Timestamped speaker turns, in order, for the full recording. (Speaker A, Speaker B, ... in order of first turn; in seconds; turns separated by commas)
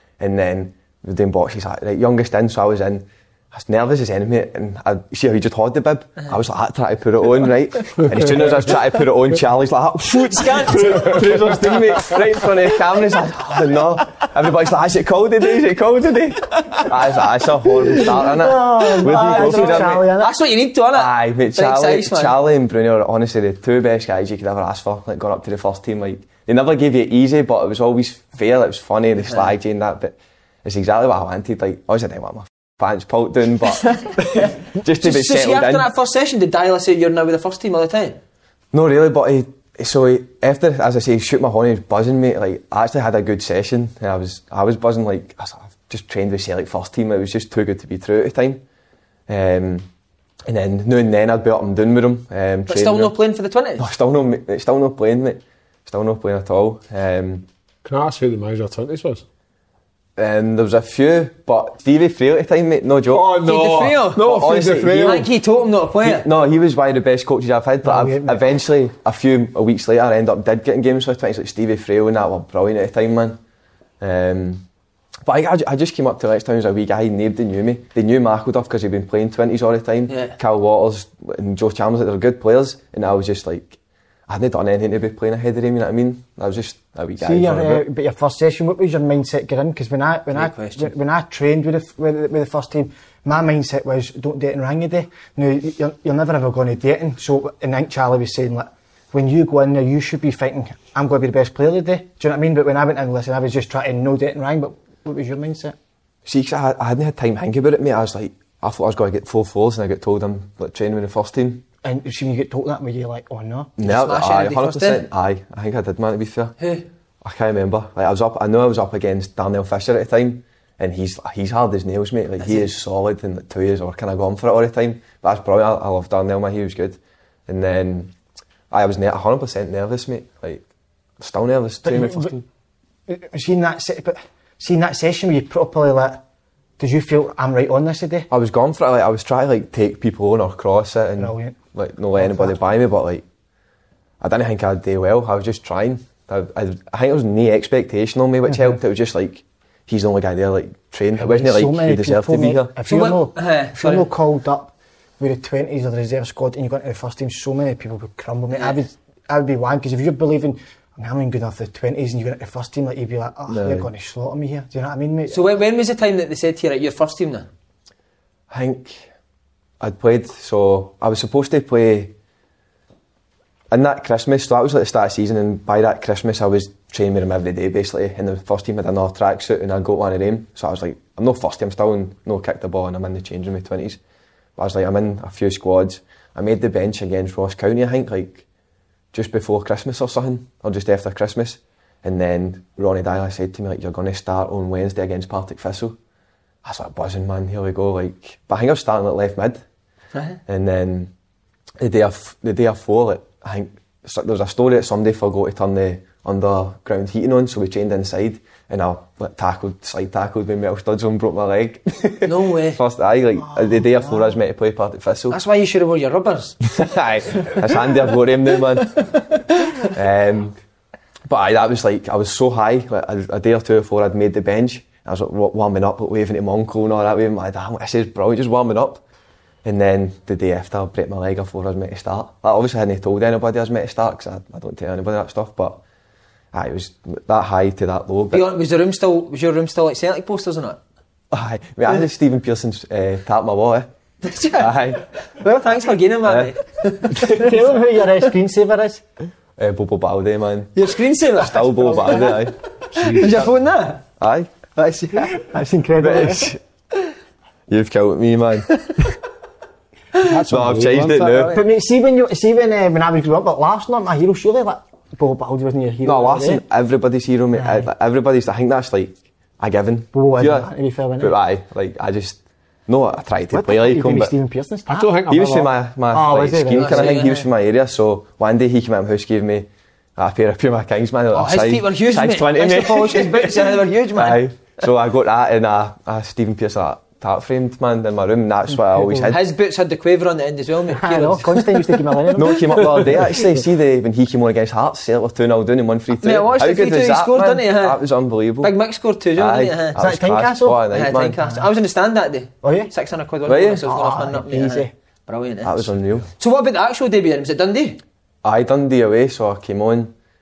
Speaker A: 0.2-20.1, Speaker B: 10.1-11.3, Speaker C: 18.1-20.3, Speaker B: 19.3-22.4, Speaker A: 20.9-35.9, Speaker B: 34.4-38.2, Speaker A: 38.7-48.6, Speaker A: 49.3-49.9, Speaker A: 50.5-53.1, Speaker B: 52.7-53.9, Speaker A: 53.8-57.5, Speaker D: 57.8-59.2, Speaker A: 60.2-63.4, Speaker D: 63.1-65.3, Speaker B: 63.4-64.2, Speaker A: 64.1-65.3, Speaker B: 65.0-66.3, Speaker A: 66.0-73.4, Speaker C: 67.8-68.4, Speaker A: 74.0-74.6, Speaker A: 75.2-83.8, Speaker B: 80.1-80.4, Speaker A: 84.3-87.8, Speaker C: 87.2-105.8, Speaker B: 90.3-90.9, Speaker A: 106.2-111.7, Speaker C: 111.8-113.7, Speaker A: 113.8-116.5, Speaker B: 113.8-115.0, Speaker B: 116.6-116.8, Speaker A: 117.2-128.1, Speaker B: 122.4-122.7, Speaker A: 128.7-130.6, Speaker A: 131.2-132.4, Speaker C: 131.8-132.4, Speaker C: 133.1-136.2, Speaker C: 136.8-138.3, Speaker A: 138.3-143.2, Speaker C: 141.2-141.6, Speaker C: 142.2-142.6, Speaker A: 144.2-152.7, Speaker C: 148.5-148.8, Speaker C: 151.2-165.4, Speaker B: 152.9-154.1, Speaker B: 158.5-158.8, Speaker A: 163.5-163.9, Speaker B: 165.3-167.5, Speaker A: 168.5-169.0, Speaker A: 169.8-172.1, Speaker A: 173.7-184.0, Speaker A: 184.6-188.4, Speaker A: 189.1-196.0, Speaker A: 196.6-199.6, Speaker B: 200.1-200.4, Speaker A: 200.5-201.1, Speaker A: 201.8-215.4, Speaker B: 212.2-212.8, Speaker C: 213.5-214.3, Speaker B: 215.3-216.6, Speaker A: 216.7-219.1, Speaker A: 219.8-220.6, Speaker A: 221.3-229.0, Speaker A: 229.6-235.8, Speaker A: 236.5-238.5, Speaker B: 238.3-240.8, Speaker A: 241.3-243.9, Speaker B: 244.2-244.7, Speaker A: 244.6-245.0, Speaker B: 245.3-247.5, Speaker A: 246.2-246.5, Speaker C: 247.2-249.0, Speaker A: 249.6-250.7, Speaker B: 250.7-252.3, Speaker A: 251.3-252.5, Speaker D: 252.9-253.4, Speaker B: 253.0-254.0, Speaker A: 254.2-254.5, Speaker B: 254.8-255.4, Speaker C: 255.3-256.5, Speaker A: 256.0-256.6, Speaker A: 257.7-258.7, Speaker D: 260.2-261.5, Speaker A: 260.4-261.6, Speaker C: 261.5-266.6, Speaker A: 266.0-274.3, Speaker C: 267.5-267.9, Speaker C: 270.1-271.4, Speaker C: 273.5-275.3, Speaker D: 274.9-275.8, Speaker A: 275.2-289.4, Speaker C: 276.1-277.1, Speaker B: 276.7-277.5, Speaker B: 281.3-284.4, Speaker B: 289.3-291.8, Speaker C: 290.9-293.2, Speaker A: 292.3-298.7, Speaker B: 296.2-298.0, Speaker B: 298.6-300.0, Speaker A: 299.4-301.4, Speaker C: 300.0-300.9, Speaker B: 300.9-308.0, Speaker C: 302.6-302.9, Speaker A: 303.5-303.9, Speaker C: 303.9-304.9, Speaker A: 305.6-306.3, Speaker A: 308.4-310.1